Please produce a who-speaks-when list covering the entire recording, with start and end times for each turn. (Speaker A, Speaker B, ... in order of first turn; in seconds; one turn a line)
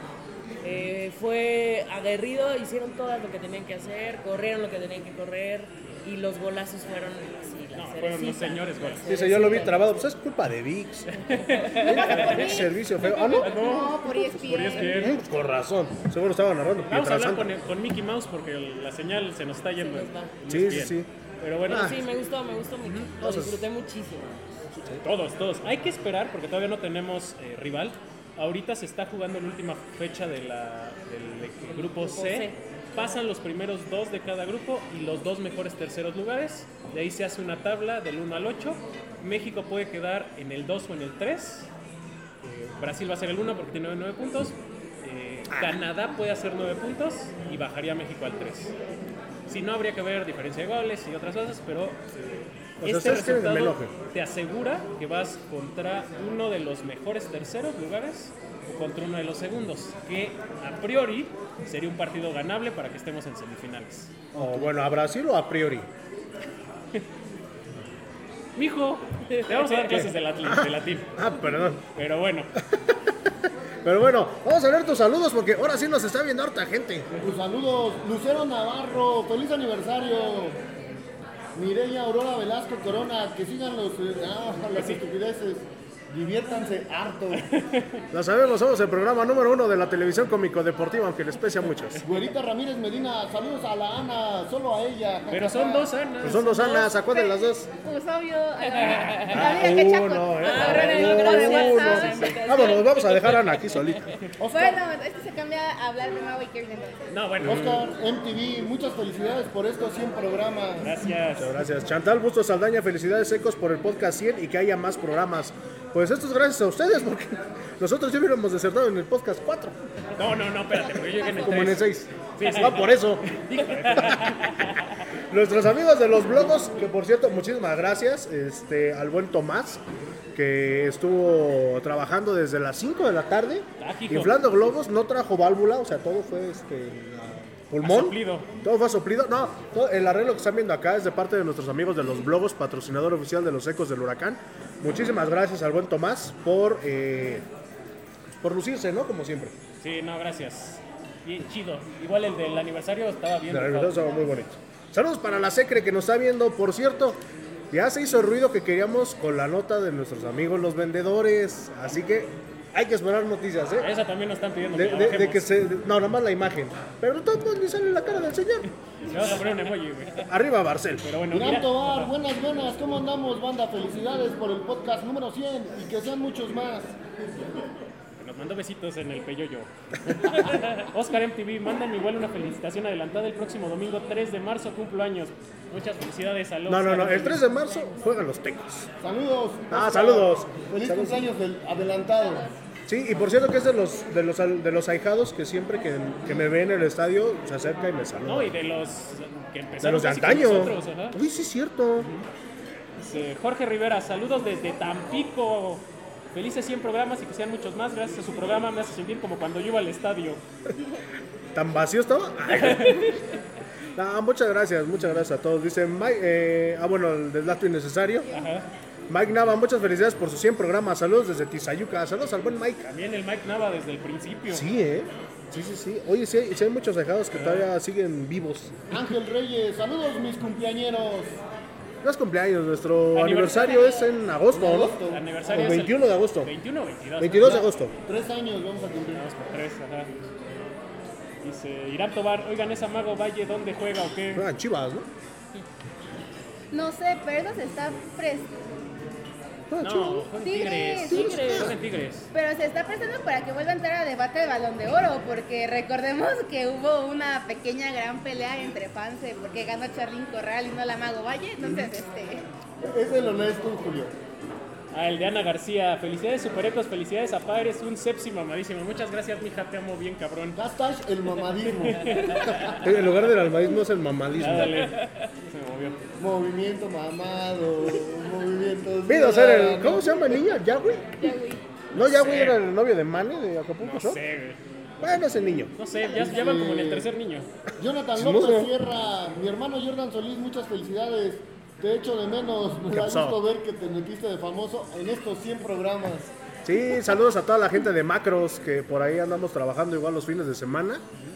Speaker A: 0.6-10.0
Speaker B: 7.7-9.1
Speaker C: 9.1-11.1
Speaker B: 11.3-15.2
Speaker A: 11.3-11.9
Speaker C: 11.8-13.5
Speaker D: 11.8-15.1
Speaker C: 14.9-17.5
Speaker B: 16.8-22.0
Speaker A: 19.7-20.4
Speaker C: 20.5-21.1
Speaker C: 21.7-22.0
Speaker A: 21.7-24.6
Speaker B: 22.8-23.1
Speaker C: 23.2-23.6
Speaker C: 24.7-25.0
Speaker B: 25.0-41.7
Speaker A: 31.8-32.6
Speaker B: 42.4-48.7
Speaker B: 49.5-64.2
Speaker C: 52.8-53.9
Speaker E: 64.3-64.7
Speaker C: 64.3-65.9
Speaker B: 68.5-71.2
Speaker A: 69.3-70.1
Speaker C: 69.9-71.8
Speaker B: 71.9-72.5
Speaker C: 72.7-73.1
Speaker C: 73.8-77.1
Speaker E: 77.2-80.6
Speaker E: 81.5-87.5
Speaker B: 84.7-85.0
Speaker B: 87.3-88.0
Speaker C: 88.1-92.0
Speaker B: 92.0-92.2
Speaker E: 92.0-95.9
Speaker B: 95.3-96.8
Speaker C: 96.2-97.7
Speaker D: 97.1-102.3
Speaker A: 98.8-99.4
Speaker C: 99.3-104.1
Speaker A: 100.4-103.7
Speaker B: 102.0-102.4
Speaker E: 104.4-104.8
Speaker D: 104.5-107.1
Speaker B: 107.1-107.8
Speaker E: 107.4-110.9
Speaker B: 110.8-111.6
Speaker C: 111.4-119.8
Speaker B: 120.1-124.9
Speaker C: 121.3-123.3
Speaker C: 124.0-124.5
Speaker C: 125.3-129.8
Speaker C: 130.3-147.4
Speaker B: 133.8-134.4
Speaker B: 137.8-138.5
Speaker C: 148.4-149.5
Speaker B: 149.8-154.4
Speaker C: 153.5-163.9
Speaker B: 163.8-165.5
Speaker C: 164.7-168.7
Speaker B: 169.1-170.2
Speaker C: 170.2-171.1
Speaker B: 171.0-172.1
Speaker E: 171.3-176.9
Speaker B: 178.2-187.4
Speaker C: 186.7-188.9
Speaker E: 189.0-192.4
Speaker C: 189.7-191.3
Speaker D: 192.2-192.6
Speaker C: 192.9-198.6
Speaker B: 198.2-201.2
Speaker C: 199.8-202.1
Speaker B: 202.0-202.3
Speaker B: 203.0-210.4
Speaker C: 211.5-213.2
Speaker B: 212.5-213.3
Speaker C: 213.9-218.3
Speaker B: 218.3-218.7
Speaker C: 219.1-222.9
Speaker B: 222.8-224.7
Speaker C: 224.5-228.8
Speaker B: 227.3-227.7
Speaker E: 228.9-231.4
Speaker C: 232.0-236.5
Speaker B: 233.1-233.9
Speaker E: 234.5-235.2
Speaker B: 235.1-237.7
Speaker C: 237.2-237.9
Speaker E: 237.4-239.2
Speaker B: 239.1-240.1
Speaker B: 241.4-244.5
Speaker C: 244.3-245.1
Speaker D: 246.7-248.5
Speaker C: 249.7-251.8
Speaker B: 249.8-252.3
Speaker D: 250.3-251.6
Speaker D: 252.3-262.4
Speaker E: 261.6-261.9
Speaker E: 262.8-264.1
Speaker B: 264.9-270.6
Speaker E: 270.6-272.8
Speaker B: 271.9-272.8
Speaker C: 272.8-274.9
Speaker B: 274.3-276.0
Speaker E: 276.2-280.2
Speaker C: 279.1-281.3
Speaker D: 281.2-281.6
Speaker C: 281.9-284.2
Speaker B: 281.9-282.6
Speaker B: 283.8-284.6
Speaker C: 285.0-285.7
Speaker B: 285.8-287.5
Speaker E: 286.1-287.1
Speaker E: 287.8-296.3
Speaker C: 288.1-288.7
Speaker C: 292.9-293.4
Speaker C: 296.6-301.0